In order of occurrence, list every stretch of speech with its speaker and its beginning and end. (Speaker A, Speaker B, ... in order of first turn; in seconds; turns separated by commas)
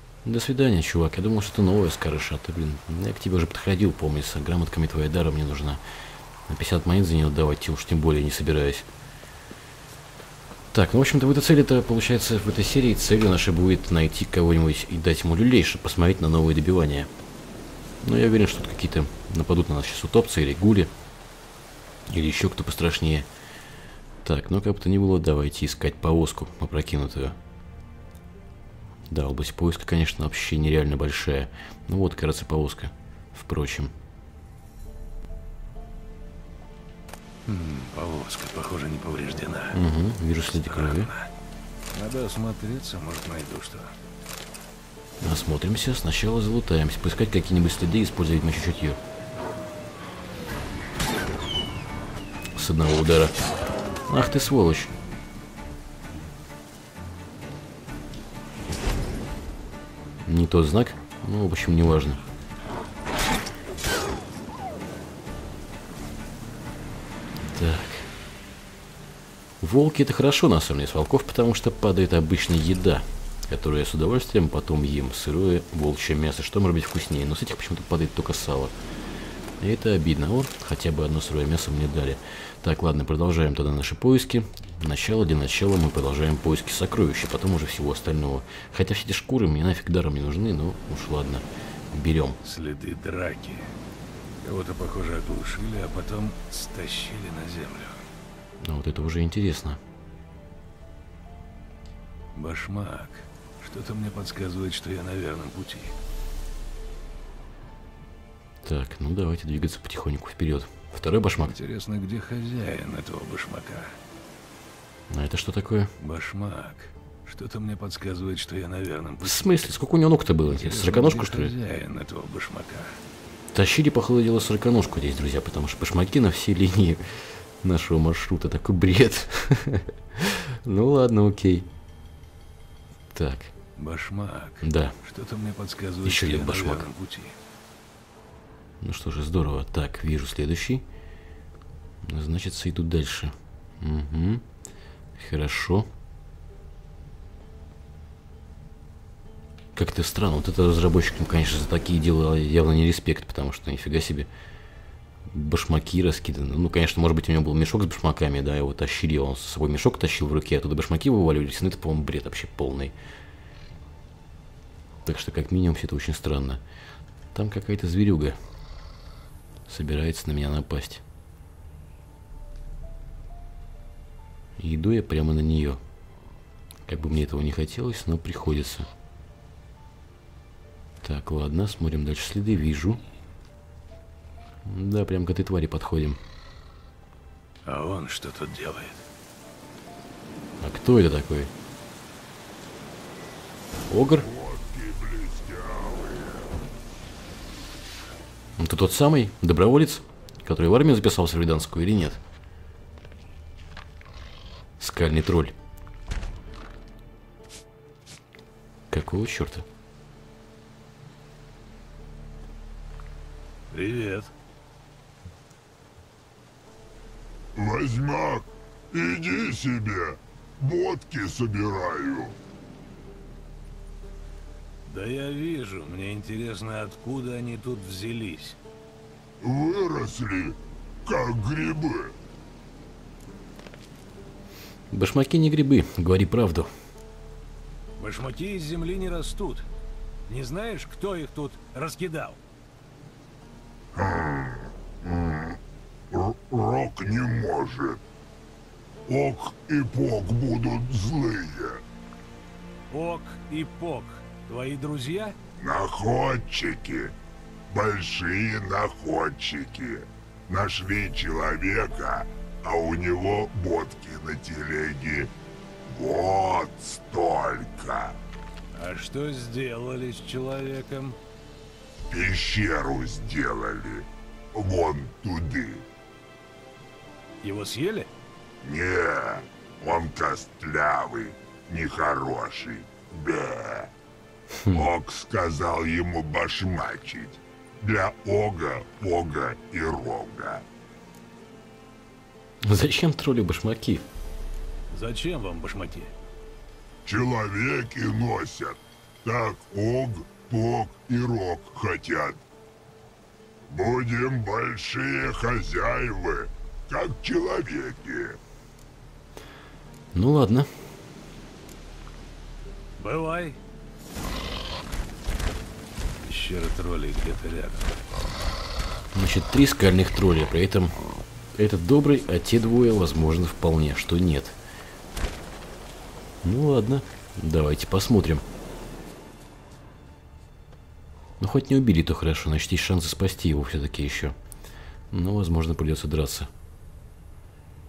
Speaker A: 0.2-5.8, Speaker A: 6.5-8.9, Speaker A: 10.7-17.1, Speaker A: 18.0-20.9, Speaker A: 22.1-23.3, Speaker A: 24.2-27.4, Speaker A: 29.1-33.9, Speaker B: 37.5-39.8, Speaker A: 39.7-41.1, Speaker B: 40.6-41.3, Speaker B: 41.9-43.9, Speaker A: 45.2-49.0, Speaker A: 52.5-53.4, Speaker A: 54.1-54.9, Speaker A: 60.2-62.2, Speaker A: 67.4-68.1, Speaker A: 69.6-78.8, Speaker A: 79.6-92.4, Speaker B: 92.4-93.7, Speaker B: 94.4-98.1, Speaker A: 98.6-99.8, Speaker B: 102.3-106.0, Speaker A: 108.6-111.6, Speaker B: 111.5-113.9, Speaker A: 115.1-115.9, Speaker B: 116.0-119.7, Speaker A: 119.2-121.5, Speaker B: 120.5-123.0, Speaker A: 123.5-131.7, Speaker A: 133.1-133.5, Speaker B: 133.8-137.3, Speaker A: 134.6-135.0, Speaker A: 136.0-136.9, Speaker A: 138.8-140.8, Speaker A: 142.0-144.4, Speaker A: 145.1-145.9, Speaker A: 149.7-154.3, Speaker A: 155.3-162.9, Speaker A: 165.1-166.6, Speaker A: 167.3-168.4, Speaker A: 169.7-171.0, Speaker A: 174.6-175.8, Speaker A: 176.9-178.9, Speaker A: 181.0-183.0, Speaker A: 184.6-186.2, Speaker B: 187.7-189.1, Speaker A: 190.6-191.5, Speaker A: 193.9-194.3, Speaker C: 194.2-196.5, Speaker A: 198.6-202.2, Speaker A: 204.8-205.6, Speaker A: 208.9-209.7, Speaker B: 213.7-214.3, Speaker C: 217.6-222.4, Speaker B: 224.9-228.6, Speaker C: 229.4-232.1, Speaker A: 234.9-236.7, Speaker B: 238.0-239.7, Speaker B: 240.3-242.4, Speaker C: 243.9-245.6, Speaker C: 246.1-248.0, Speaker C: 249.1-251.8, Speaker B: 252.9-255.4, Speaker C: 255.6-257.1, Speaker C: 257.7-265.3, Speaker C: 265.9-268.1, Speaker B: 268.8-271.2, Speaker C: 272.1-275.9, Speaker B: 277.4-278.1, Speaker C: 278.6-283.9, Speaker A: 284.6-284.9, Speaker C: 284.7-290.6, Speaker A: 292.6-294.1, Speaker B: 294.9-296.1, Speaker C: 297.1-302.4, Speaker C: 303.7-308.4, Speaker A: 310.1-310.7, Speaker B: 313.0-313.6, Speaker B: 316.2-318.0, Speaker A: 319.1-320.9, Speaker A: 321.6-324.6, Speaker A: 326.4-328.4, Speaker A: 331.4-334.4, Speaker A: 335.1-336.5